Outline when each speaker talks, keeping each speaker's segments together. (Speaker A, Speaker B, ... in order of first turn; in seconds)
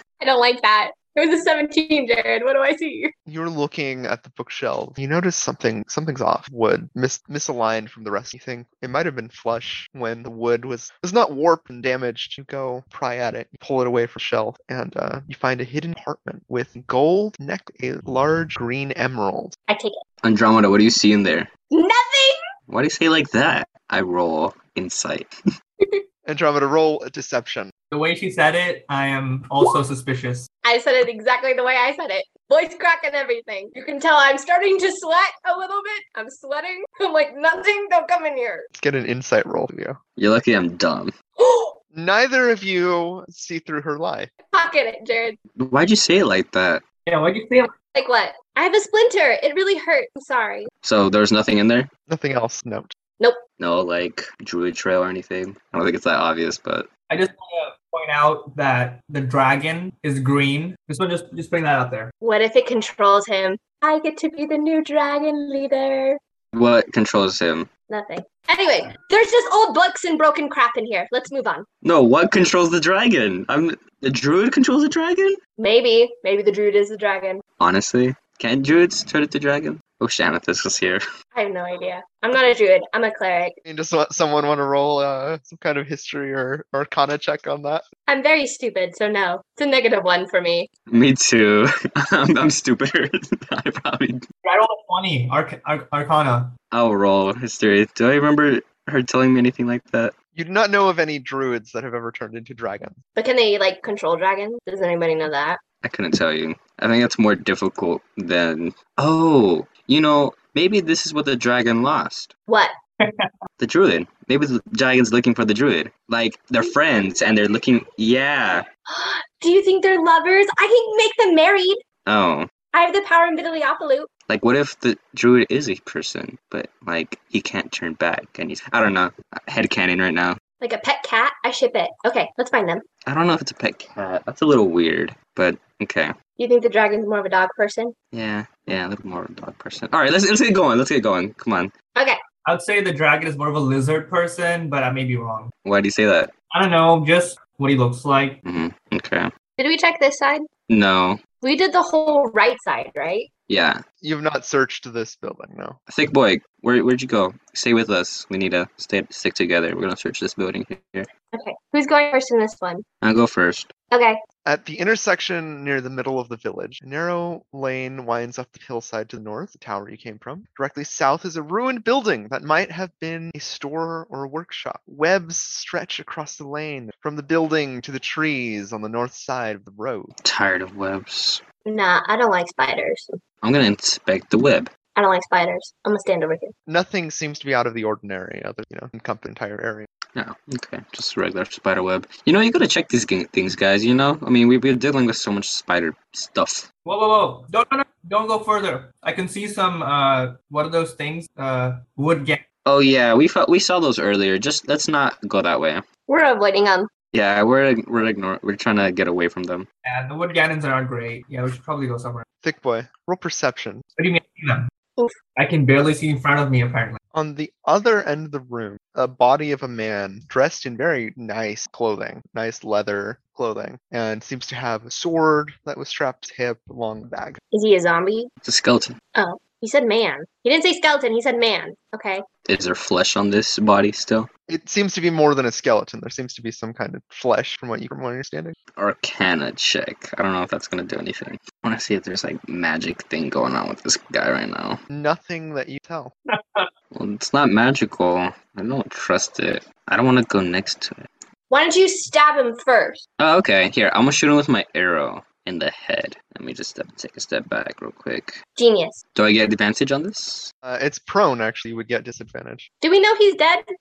Speaker A: 0.2-3.1, 19.7-20.0, 21.7-22.4, 30.6-38.7, 41.4-41.8, 44.4-45.4, 47.9-50.7, 62.2-66.2, 67.9-71.7, 75.6-77.4, 81.3-83.6, 88.1-90.7, 103.2-105.6, 112.5-112.7, 118.9-121.8, 122.7-124.1, 130.6-132.8, 136.4-137.9, 141.9-142.2, 149.6-150.5, 151.4-153.3, 161.3-162.8, 163.9-164.2, 181.6-183.2, 184.9-186.5, 206.1-206.9, 227.5-228.3, 229.1-232.2, 251.5-253.0, 258.6-259.0, 262.8-263.6
Speaker B: 3.3-19.5, 26.2-27.7, 38.7-40.0, 41.9-44.3, 52.1-52.9, 83.7-87.8, 100.3-103.0, 154.0-155.8, 164.4-180.1, 186.7-189.9, 212.4-213.8, 217.1-227.4, 234.5-238.6, 244.9-246.1, 260.6-262.7
Speaker C: 20.2-21.5, 22.7-25.3, 40.2-41.1, 45.6-46.8, 50.8-51.9, 53.6-56.9, 66.5-67.7, 71.8-75.4, 77.6-81.0, 90.9-94.2, 96.7-100.1, 105.8-112.3, 113.6-118.7, 122.0-122.5, 124.3-130.4, 133.1-136.1, 138.1-141.7, 145.6-146.3, 148.4-149.3, 150.7-151.2, 153.5-153.8, 155.9-161.1, 163.0-163.7, 180.2-181.4, 183.4-184.7, 190.1-196.7, 202.7-205.8, 207.1-209.7, 228.4-228.9, 232.4-234.3, 238.8-244.8, 246.9-251.0, 253.2-258.4, 259.1-260.5
Speaker D: 27.9-30.5, 47.0-47.7, 57.1-62.1, 94.4-96.5, 113.0-113.3, 142.4-145.5, 146.5-148.4, 196.8-202.4, 209.8-212.2, 214.0-214.6, 215.3-217.0, 246.3-246.7